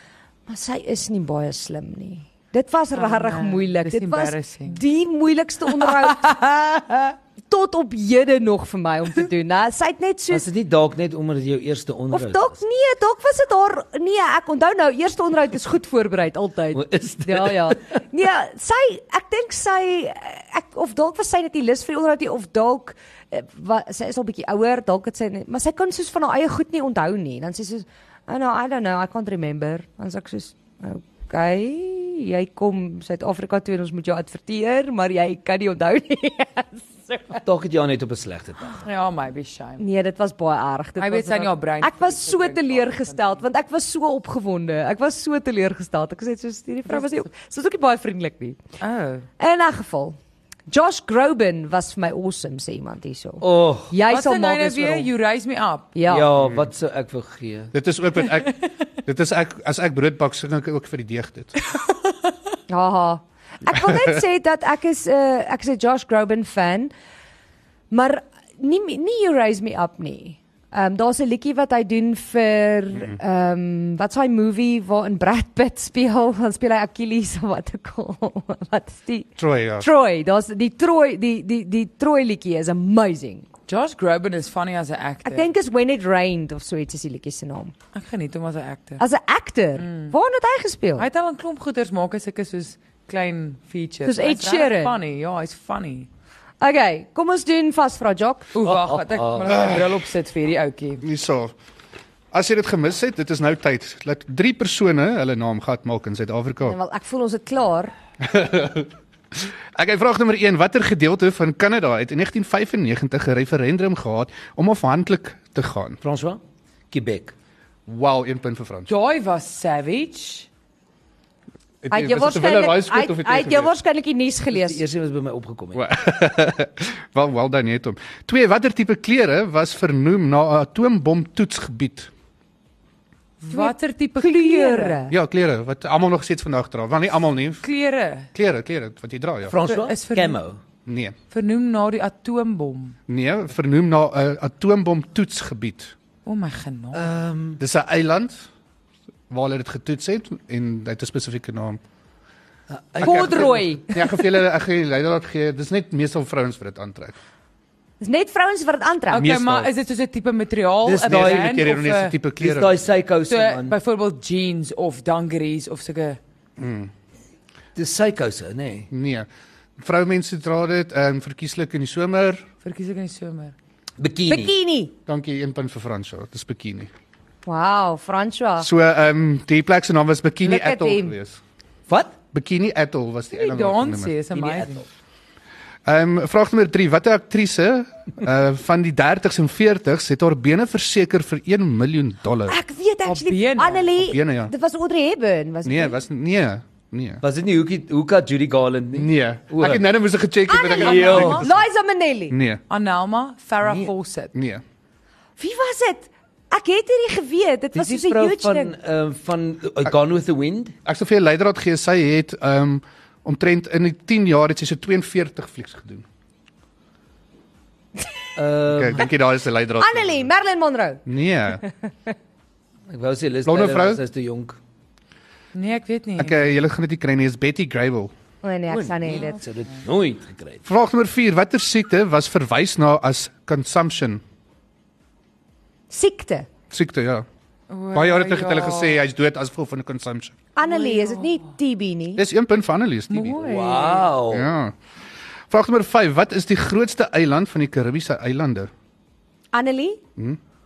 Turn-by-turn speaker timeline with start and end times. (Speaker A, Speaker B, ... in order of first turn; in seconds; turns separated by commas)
Speaker A: 0.5-10.5, Speaker B: 3.0-4.8, Speaker C: 10.3-12.6, Speaker A: 12.1-37.4, Speaker C: 16.7-17.8, Speaker C: 37.4-38.8, Speaker B: 38.8-39.8, Speaker A: 39.8-48.6, Speaker B: 41.0-43.4, Speaker B: 46.9-47.3, Speaker B: 48.8-49.3, Speaker A: 49.4-50.2, Speaker A: 50.7-55.1, Speaker C: 53.4-53.9, Speaker B: 54.1-55.9, Speaker A: 56.0-56.3, Speaker C: 56.1-57.7, Speaker D: 56.4-56.7, Speaker D: 57.7-61.5, Speaker A: 62.7-66.9, Speaker D: 63.7-64.0, Speaker A: 67.9-83.5, Speaker D: 79.4-79.9, Speaker B: 83.7-85.5, Speaker A: 85.2-87.7, Speaker B: 87.9-89.0, Speaker A: 89.0-91.1, Speaker B: 89.8-90.1, Speaker B: 91.0-96.1, Speaker A: 94.0-95.0, Speaker A: 96.6-98.5, Speaker B: 98.5-101.0, Speaker C: 98.6-99.8, Speaker D: 99.5-99.8, Speaker D: 101.0-101.5, Speaker D: 102.3-106.8, Speaker A: 106.6-107.9, Speaker D: 108.2-116.0, Speaker C: 116.0-117.3, Speaker D: 117.9-118.9, Speaker B: 118.9-120.5, Speaker D: 121.8-123.7, Speaker A: 121.9-124.8, Speaker C: 124.5-125.8, Speaker D: 125.7-132.1, Speaker B: 133.4-135.0, Speaker A: 133.5-135.1, Speaker D: 135.1-137.7, Speaker B: 137.6-138.3, Speaker D: 138.3-139.6, Speaker C: 139.5-140.6, Speaker B: 139.7-140.4, Speaker D: 140.9-141.2, Speaker B: 141.3-143.0, Speaker D: 143.1-145.9, Speaker B: 146.3-147.1, Speaker C: 146.9-147.6, Speaker D: 147.6-148.4, Speaker D: 149.3-151.8, Speaker C: 152.7-153.6, Speaker D: 153.0-157.2, Speaker A: 153.0-154.3, Speaker A: 158.0-159.3, Speaker B: 159.1-162.2, Speaker D: 159.1-159.7, Speaker C: 160.8-161.8, Speaker D: 161.0-162.7, Speaker C: 162.4-163.8, Speaker B: 163.3-166.2, Speaker D: 166.6-166.9, Speaker C: 167.8-168.9, Speaker D: 168.9-169.3, Speaker D: 169.8-172.4, Speaker B: 172.6-173.6, Speaker C: 174.0-174.5, Speaker A: 174.3-174.9, Speaker D: 175.1-176.9, Speaker A: 177.4-178.7, Speaker D: 178.6-181.4, Speaker A: 180.4-181.2, Speaker C: 181.9-182.2, Speaker D: 182.3-184.2, Speaker B: 183.3-184.8, Speaker C: 184.3-184.9, Speaker D: 185.8-192.6, Speaker A: 192.5-196.0, Speaker B: 193.1-193.9, Speaker D: 194.0-194.5, Speaker D: 195.7-197.2, Speaker C: 197.2-199.8, Speaker D: 199.0-201.6, Speaker A: 200.5-202.4, Speaker C: 200.7-201.5, Speaker B: 200.8-201.3, Speaker D: 202.3-202.6, Speaker B: 202.7-204.3, Speaker C: 203.6-203.9, Speaker D: 204.3-204.6, Speaker A: 205.4-208.7, Speaker C: 207.7-210.8, Speaker D: 210.8-216.0, Speaker C: 218.4-219.1, Speaker D: 218.7-220.2, Speaker A: 219.8-221.0, Speaker D: 221.1-221.6, Speaker C: 222.9-224.6, Speaker D: 223.4-224.0, Speaker B: 225.5-226.6, Speaker D: 226.2-228.1, Speaker A: 228.4-229.4, Speaker C: 228.7-230.6, Speaker D: 230.7-234.2, Speaker A: 235.9-236.5, Speaker D: 236.7-237.2, Speaker B: 237.7-239.0, Speaker D: 237.9-240.4, Speaker A: 240.6-242.2, Speaker B: 240.6-241.4, Speaker D: 242.2-243.4, Speaker B: 243.1-244.1, Speaker C: 243.4-244.5, Speaker D: 244.3-244.8, Speaker D: 245.5-248.7, Speaker A: 249.5-250.0